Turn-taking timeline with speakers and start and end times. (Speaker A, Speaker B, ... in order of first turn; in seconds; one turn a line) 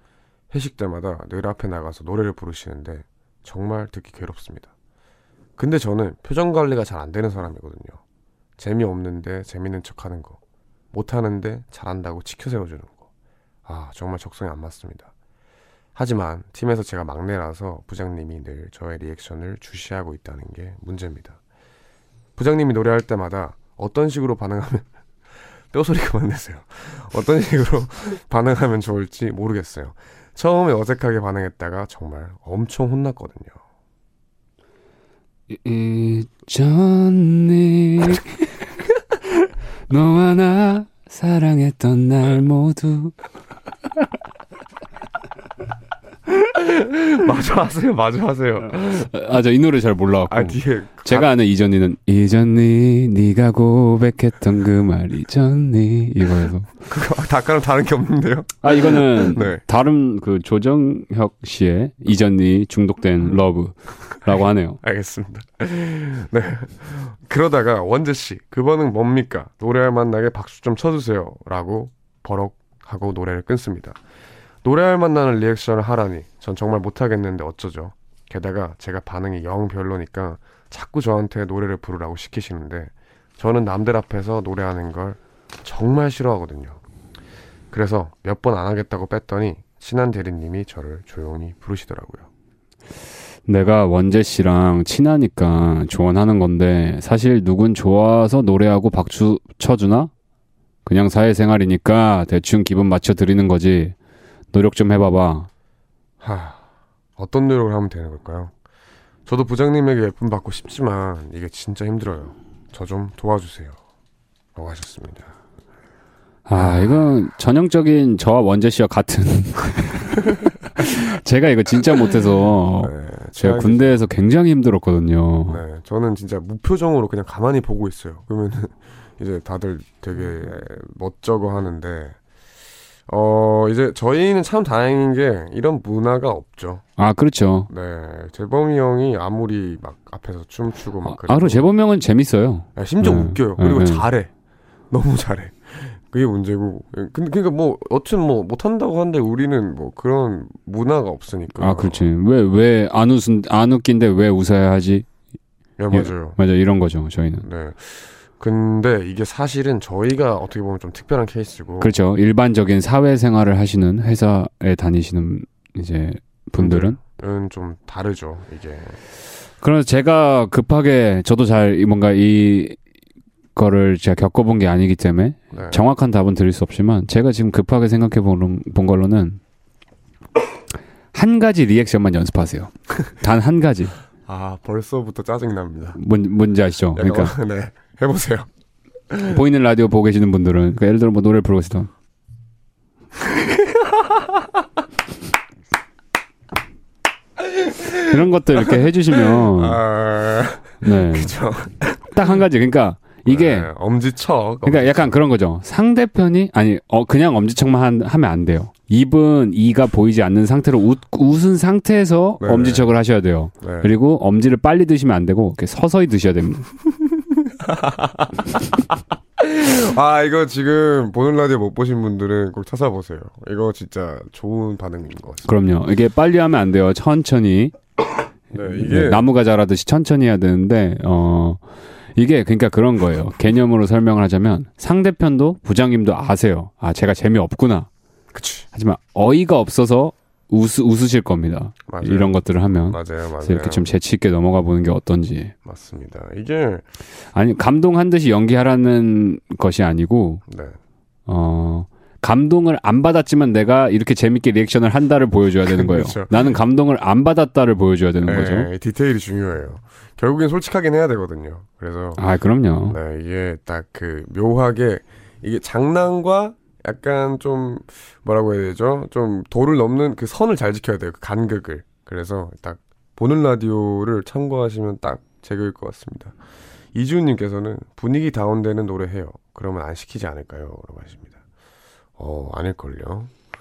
Speaker A: 0.5-4.7
Speaker A: 5.6-8.0
Speaker A: 8.6-10.4
Speaker A: 10.9-13.1
Speaker A: 13.6-15.1
Speaker A: 15.9-21.4
Speaker A: 22.4-33.6
Speaker B: 35.5-38.6
Speaker B: 39.9-43.1
Speaker A: 46.4-49.1
Speaker B: 49.1-56.7
Speaker A: 50.3-51.3
Speaker A: 56.8-59.6
Speaker B: 58.6-64.8
Speaker A: 64.8-74.0
Speaker A: 74.6-86.8
Speaker A: 87.7-92.3
Speaker B: 93.5-100.1
Speaker B: 100.8-103.9
Speaker B: 104.5-105.5
Speaker A: 106.2-108.5
Speaker A: 109.2-113.8
Speaker A: 114.5-115.4
Speaker B: 116.5-120.2
Speaker A: 116.5-117.2
Speaker B: 120.8-125.6
Speaker A: 122.8-124.0
Speaker A: 125.5-132.2
Speaker A: 133.1-136.8
Speaker B: 137.0-137.7
Speaker A: 137.7-141.7
Speaker B: 141.0-144.1
Speaker A: 142.8-144.3
Speaker A: 144.9-152.1
Speaker B: 151.6-155.1
Speaker A: 155.8-156.4
Speaker B: 155.9-157.4
Speaker A: 157.4-161.9
Speaker B: 161.8-167.0
Speaker A: 166.6-169.0
Speaker B: 169.6-172.8
Speaker B: 173.6-179.4
Speaker A: 175.5-175.8
Speaker B: 181.1-183.9
Speaker A: 184.2-186.0
Speaker B: 185.9-187.3
Speaker A: 186.9-188.5
Speaker A: 189.1-189.4
Speaker B: 189.3-191.9
Speaker A: 193.2-194.3
Speaker A: 197.4-202.2
Speaker B: 198.1-199.8
Speaker B: 200.8-201.3
Speaker B: 202.1-203.7
Speaker A: 203.2-205.2
Speaker B: 204.6-216.7
Speaker A: 212.4-212.9
Speaker A: 213.6-213.9
Speaker A: 217.4-225.5
Speaker B: 225.4-227.7
Speaker A: 228.5-229.3
Speaker B: 228.7-231.6
Speaker B: 232.1-237.9
Speaker A: 238.3-238.7
Speaker B: 238.7-245.5
Speaker A: 241.9-243.9
Speaker A: 245.6-246.8
Speaker B: 247.3-250.4
Speaker A: 250.4-250.8
Speaker B: 251.3-258.7
Speaker A: 255.7-256.4
Speaker A: 258.2-262.2
Speaker B: 262.2-263.0
Speaker A: 262.8-276.4
Speaker A: 276.9-281.4
Speaker A: 282.2-283.3